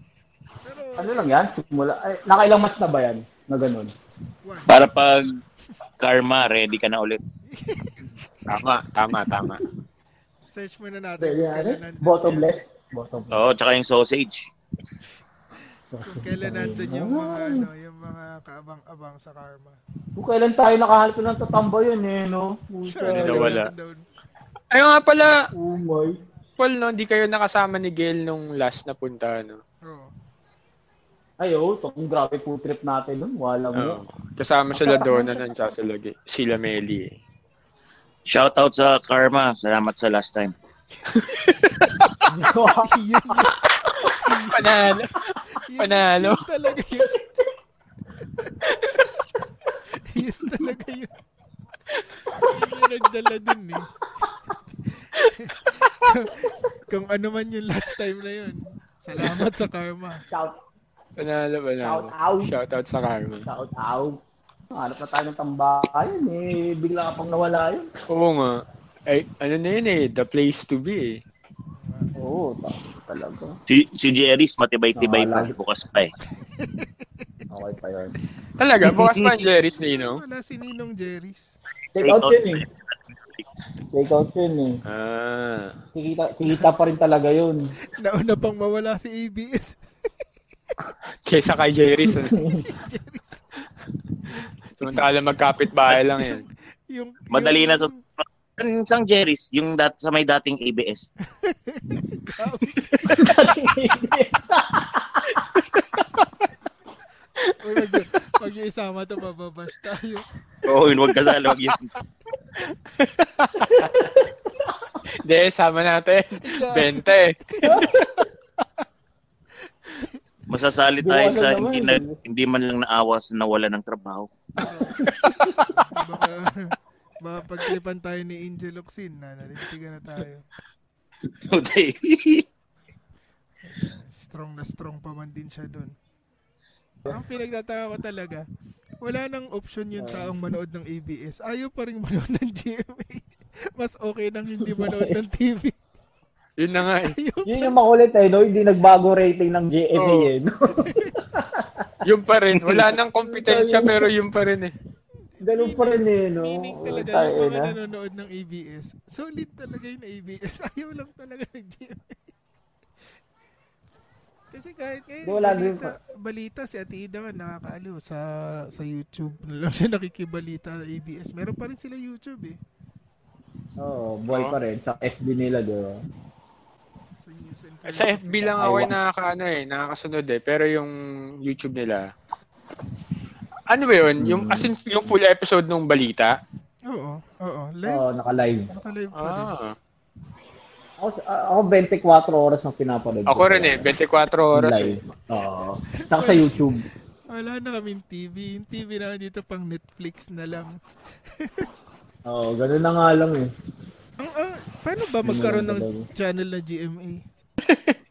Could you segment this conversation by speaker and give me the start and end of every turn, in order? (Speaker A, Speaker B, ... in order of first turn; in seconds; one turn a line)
Speaker A: 0.6-1.4
Speaker B: 1.0-3.9
Speaker A: 4.4-4.9
Speaker C: 4.7-5.4
Speaker C: 6.0-7.2
Speaker A: 7.5-8.5
Speaker D: 8.5-9.6
Speaker A: 10.4-12.6
Speaker B: 11.2-13.4
Speaker C: 13.3-14.5
Speaker B: 15.9-17.7
Speaker A: 16.0-19.8
Speaker B: 20.1-23.6
Speaker A: 22.8-24.1
Speaker D: 23.1-23.7
Speaker D: 24.7-25.4
Speaker B: 25.5-26.2
Speaker D: 26.6-29.6
Speaker A: 29.9-30.1
Speaker B: 31.4-34.0
Speaker D: 33.8-37.1
Speaker B: 34.8-35.3
Speaker A: 35.0-35.5
Speaker C: 38.3-40.5
Speaker D: 41.1-42.0
Speaker B: 42.2-43.5
Speaker A: 42.8-43.5
Speaker A: 44.2-44.8
Speaker D: 44.3-46.4
Speaker A: 45.6-47.2
Speaker A: 50.0-51.1
Speaker A: 52.3-53.9
Speaker A: 54.8-60.2
Speaker B: 60.3-60.6
Speaker D: 61.2-63.5
Speaker B: 61.8-62.5
Speaker B: 63.5-64.2
Speaker B: 64.7-67.9
Speaker D: 68.1-71.2
Speaker A: 71.7-72.1
Speaker B: 72.2-73.6
Speaker C: 73.7-76.1
Speaker B: 75.0-75.5
Speaker A: 76.4-77.4
Speaker B: 77.5-78.1
Speaker D: 78.6-80.2
Speaker C: 78.8-79.2
Speaker A: 79.8-81.5
Speaker B: 81.9-82.6
Speaker C: 82.0-82.5
Speaker B: 83.9-84.8
Speaker D: 84.8-85.7
Speaker B: 85.9-87.6
Speaker A: 88.0-89.8
Speaker D: 91.2-92.4
Speaker B: 92.3-92.6
Speaker A: 92.5-93.4
Speaker A: 94.3-95.0
Speaker D: 94.8-96.5
Speaker A: 96.1-98.0
Speaker C: 97.3-97.9
Speaker C: 98.6-101.1
Speaker A: 101.4-103.3
Speaker D: 102.8-103.3
Speaker B: 103.1-105.4
Speaker D: 105.3-106.3
Speaker D: 107.4-108.0
Speaker A: 107.6-110.3
Speaker C: 110.6-111.9
Speaker D: 112.6-114.1
Speaker B: 113.7-114.8
Speaker D: 115.2-118.3
Speaker A: 116.4-118.1
Speaker B: 117.6-117.9
Speaker A: 119.8-120.2
Speaker C: 120.5-124.3
Speaker B: 121.0-122.2
Speaker A: 124.6-125.0
Speaker B: 125.0-125.6
Speaker D: 125.1-125.6
Speaker A: 125.8-130.4
Speaker C: 131.4-132.4
Speaker A: 133.6-135.9
Speaker A: 137.1-138.4
Speaker A: 139.0-145.8
Speaker B: 140.0-140.3
Speaker B: 144.6-145.2
Speaker D: 146.6-147.1
Speaker A: 147.0-147.8
Speaker B: 147.4-151.9
Speaker D: 149.9-150.3
Speaker A: 150.8-151.2
Speaker D: 152.0-154.7
Speaker B: 152.5-154.1
Speaker A: 155.4-162.3
Speaker B: 155.4-157.7
Speaker A: 164.5-172.6
Speaker B: 165.2-165.9
Speaker B: 173.8-176.0
Speaker D: 174.3-174.5
Speaker A: 177.2-178.9
Speaker D: 177.9-182.1
Speaker B: 178.6-178.9
Speaker D: 183.7-186.4
Speaker B: 184.2-184.7
Speaker A: 186.9-188.0
Speaker B: 187.8-188.7
Speaker A: 188.7-189.5
Speaker D: 189.1-189.7
Speaker B: 191.0-193.9
Speaker D: 193.3-194.9
Speaker B: 194.5-196.8
Speaker A: 196.0-196.5
Speaker A: 197.3-200.7
Speaker A: 201.3-201.7
Speaker B: 202.3-203.5
Speaker A: 204.2-207.2
Speaker B: 205.2-206.1
Speaker D: 207.6-208.0